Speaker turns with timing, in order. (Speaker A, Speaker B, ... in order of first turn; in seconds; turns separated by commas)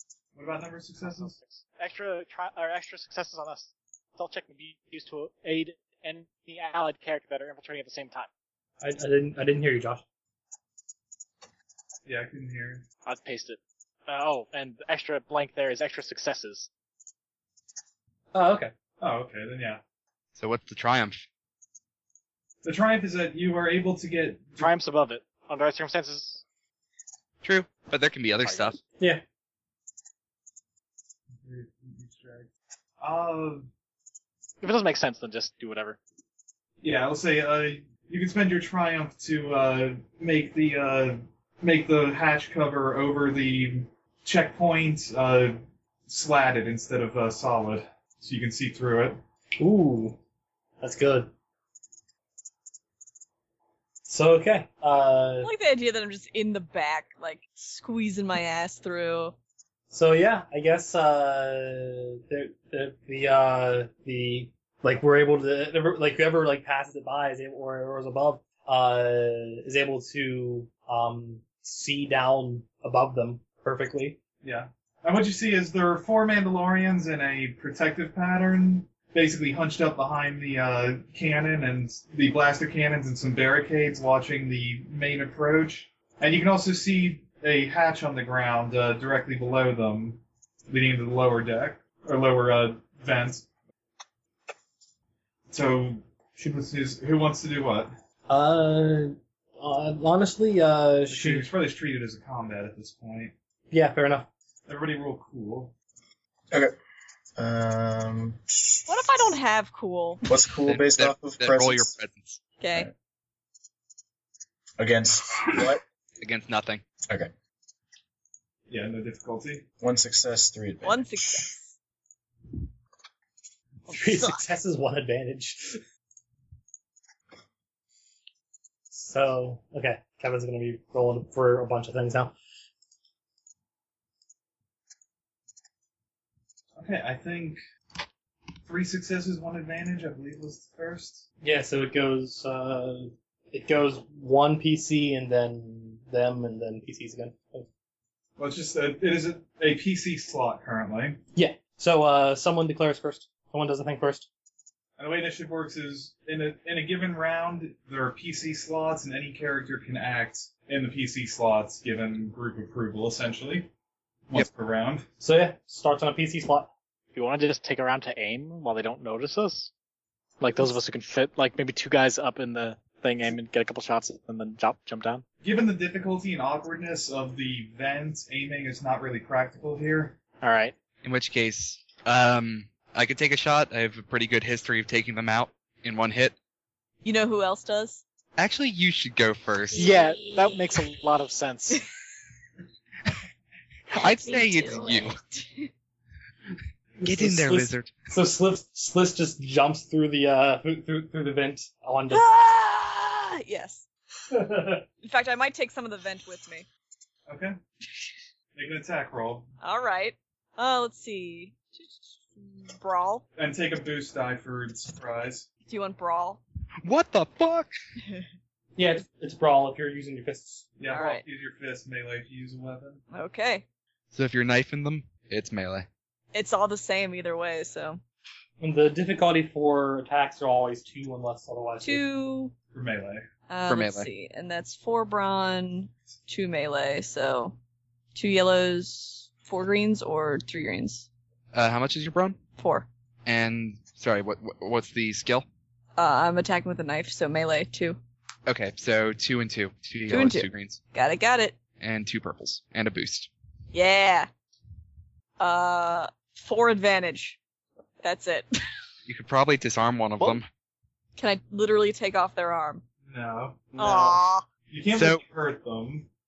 Speaker A: 0.3-1.4, Speaker B: 1.0-8.3, Speaker C: 8.8-10.0, Speaker A: 12.1-12.8, Speaker B: 13.0-16.7, Speaker C: 18.3-18.7, Speaker A: 19.0-19.8, Speaker D: 20.4-21.2, Speaker A: 22.6-24.7, Speaker B: 24.6-26.4, Speaker D: 27.4-28.8, Speaker B: 28.4-28.7, Speaker A: 31.4-32.5, Speaker A: 33.0-33.7, Speaker B: 34.6-36.0, Speaker A: 36.8-49.2, Speaker C: 49.6-50.2, Speaker C: 50.8-51.3, Speaker C: 54.1-55.5, Speaker E: 55.4-59.4, Speaker C: 59.9-74.2, Speaker A: 74.4-93.5, Speaker A: 95.5-97.9, Speaker C: 98.3-101.5, Speaker A: 101.1-103.3, Speaker C: 103.7-104.3, Speaker A: 104.7-105.7, Speaker F: 107.4-109.2, Speaker E: 108.9-110.2, Speaker F: 110.2-111.9, Speaker D: 110.7-112.5, Speaker E: 112.6-112.9, Speaker F: 114.8-115.8, Speaker D: 116.2-116.8, Speaker A: 118.7-119.6, Speaker F: 119.8-121.5, Speaker E: 120.8-121.7, Speaker C: 123.9-125.8, Speaker C: 128.9-132.3, Speaker A: 136.8-137.6, Speaker A: 138.7-141.2, Speaker C: 141.4-147.7, Speaker A: 148.4-151.2, Speaker C: 151.3-154.3, Speaker A: 155.0-163.7, Speaker A: 164.3-165.1, Speaker C: 165.2-166.7, Speaker B: 167.1-169.7, Speaker B: 170.4-175.2, Speaker A: 175.4-180.2, Speaker B: 180.4-180.7, Speaker D: 181.0-186.3, Speaker E: 187.0-188.0, Speaker D: 188.4-189.9, Speaker E: 189.7-191.0, Speaker B: 189.8-191.8, Speaker E: 193.9-195.7, Speaker D: 193.9-195.2, Speaker C: 197.0-202.2, Speaker D: 197.0-197.9, Speaker E: 202.1-203.8, Speaker C: 204.3-204.8, Speaker E: 205.0-206.7, Speaker A: 207.3-207.6, Speaker A: 208.5-209.5, Speaker E: 209.6-213.2, Speaker A: 213.3-215.5, Speaker E: 215.6-216.4, Speaker D: 216.8-217.7, Speaker C: 218.8-220.8, Speaker A: 220.8-223.0, Speaker E: 220.9-221.2, Speaker E: 223.1-223.6, Speaker D: 224.1-225.8, Speaker E: 226.3-228.0, Speaker C: 228.6-232.0, Speaker E: 231.8-232.5, Speaker A: 232.7-233.2, Speaker E: 233.5-237.6, Speaker D: 233.7-234.1, Speaker E: 238.1-241.1, Speaker D: 241.5-242.4, Speaker E: 242.6-242.9, Speaker D: 243.2-245.4, Speaker E: 245.9-248.0, Speaker D: 248.4-250.8, Speaker E: 250.1-251.6, Speaker D: 251.8-253.3, Speaker E: 253.7-254.3, Speaker E: 255.4-257.4, Speaker E: 258.0-258.5, Speaker D: 259.1-260.5, Speaker E: 261.1-262.8, Speaker A: 263.1-266.1, Speaker E: 263.8-264.4, Speaker D: 264.9-265.2